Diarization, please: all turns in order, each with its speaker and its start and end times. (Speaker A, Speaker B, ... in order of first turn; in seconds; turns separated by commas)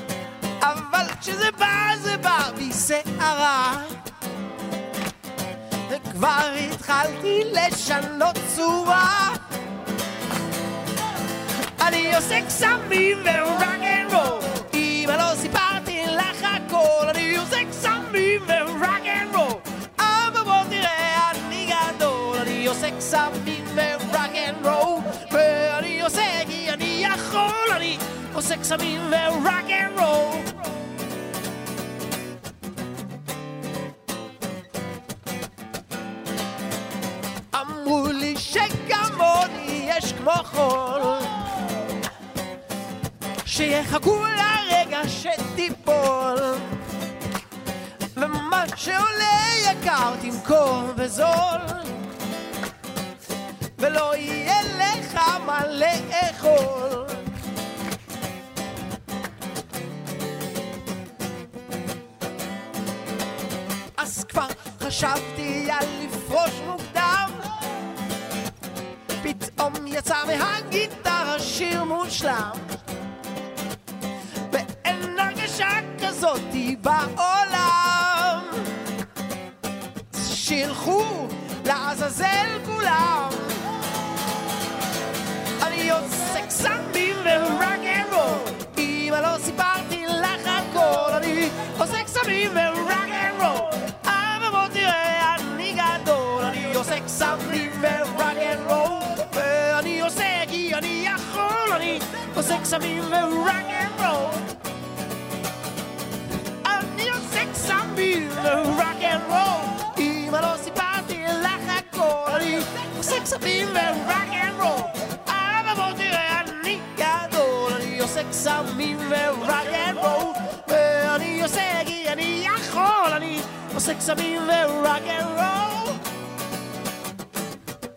Speaker A: 0.6-4.0, Speaker A: 5.9-9.4, Speaker A: 11.8-30.5, Speaker A: 37.5-41.4, Speaker A: 43.5-46.7, Speaker A: 48.2-51.9, Speaker A: 53.8-57.3, Speaker A: 64.0-67.5, Speaker A: 69.2-72.7, Speaker A: 74.5-78.7, Speaker A: 80.1-83.6, Speaker A: 85.6-104.4, Speaker A: 106.6-126.0